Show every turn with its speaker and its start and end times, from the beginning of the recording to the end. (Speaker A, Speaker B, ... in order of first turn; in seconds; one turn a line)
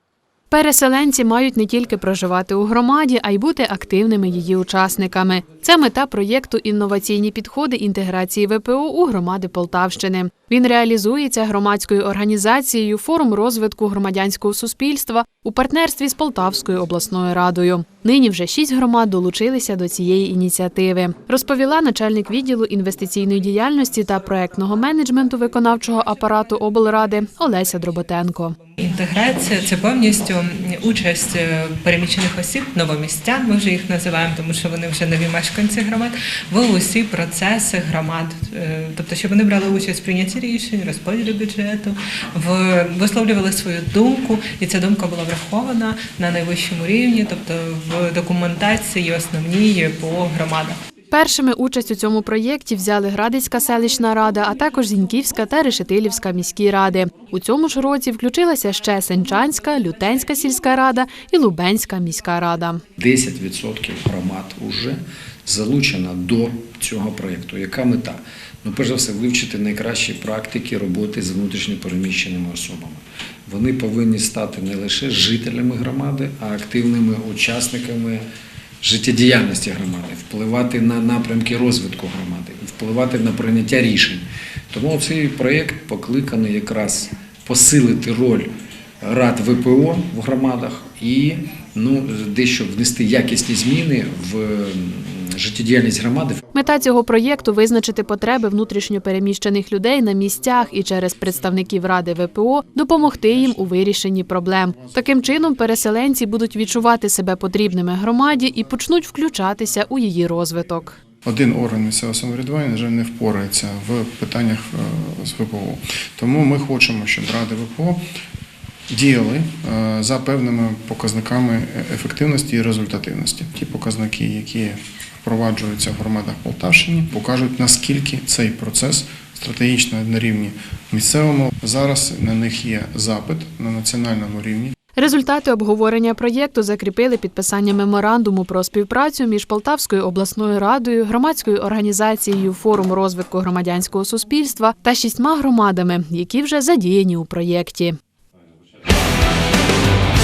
Speaker A: 0.5-28.6
Speaker B: 28.8-50.8
Speaker A: 51.1-62.8
Speaker C: 63.0-78.2
Speaker C: 78.8-88.5
Speaker C: 89.0-96.4
Speaker A: 96.5-111.0
Speaker D: 111.2-118.0
Speaker D: 118.9-134.7
Speaker A: 134.9-148.0